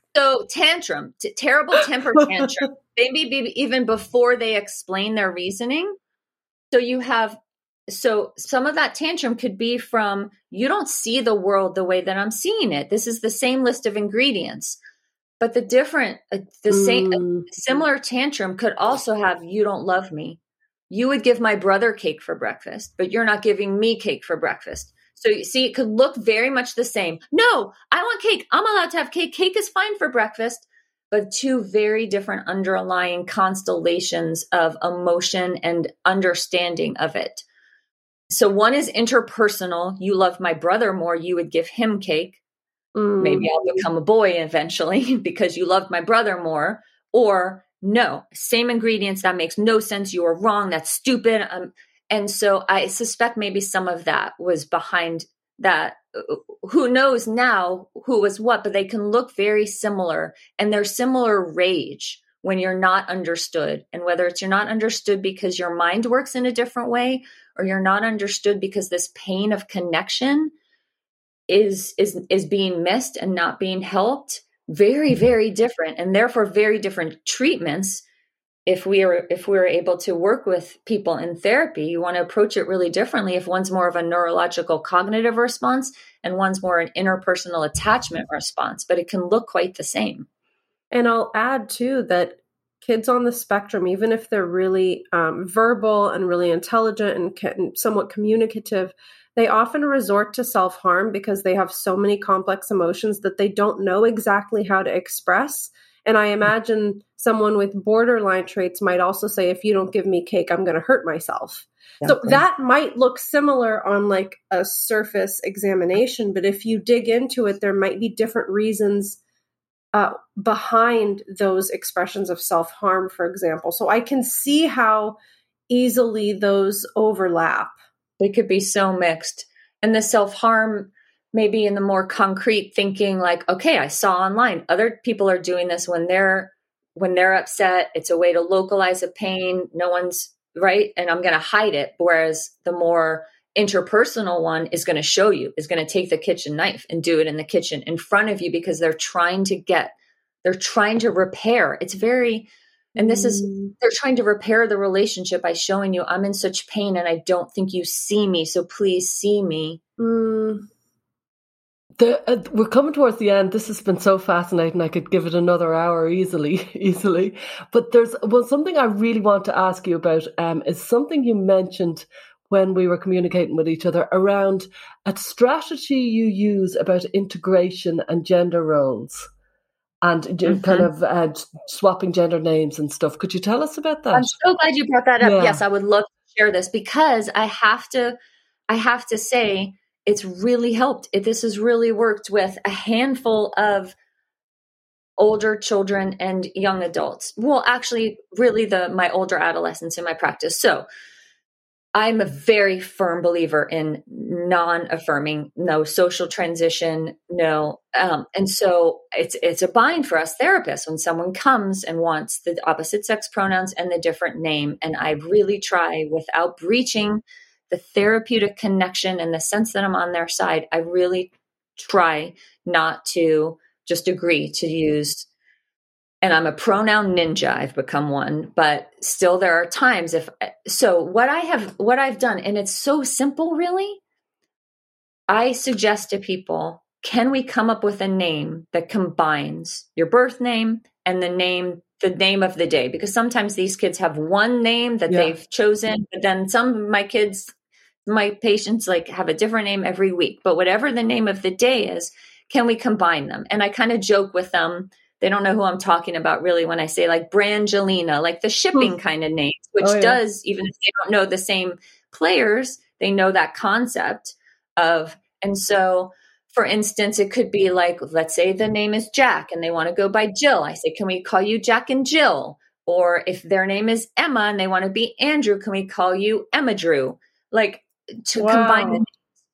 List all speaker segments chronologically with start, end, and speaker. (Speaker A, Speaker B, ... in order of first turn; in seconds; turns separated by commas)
Speaker A: 0.1-6.0, Speaker A: 6.7-7.4, Speaker A: 7.9-14.8, Speaker A: 15.4-20.4, Speaker B: 16.9-17.4, Speaker A: 20.9-37.4, Speaker A: 38.3-42.4, Speaker B: 43.0-43.8, Speaker A: 43.2-70.5, Speaker A: 71.5-78.0, Speaker A: 78.7-90.3, Speaker B: 90.9-119.2, Speaker A: 112.0-112.4, Speaker B: 119.9-125.2, Speaker B: 125.7-127.8, Speaker A: 128.2-159.8, Speaker B: 153.0-153.7, Speaker B: 160.0-160.7, Speaker C: 162.0-179.3, Speaker C: 180.0-184.3, Speaker A: 180.4-180.9, Speaker A: 184.1-188.2, Speaker C: 185.2-185.6, Speaker A: 188.7-193.9, Speaker A: 195.2-200.8, Speaker A: 201.9-225.3, Speaker A: 226.2-234.0, Speaker A: 235.3-247.5, Speaker C: 245.1-245.3, Speaker A: 248.1-279.1, Speaker C: 259.8-260.2, Speaker B: 278.4-279.0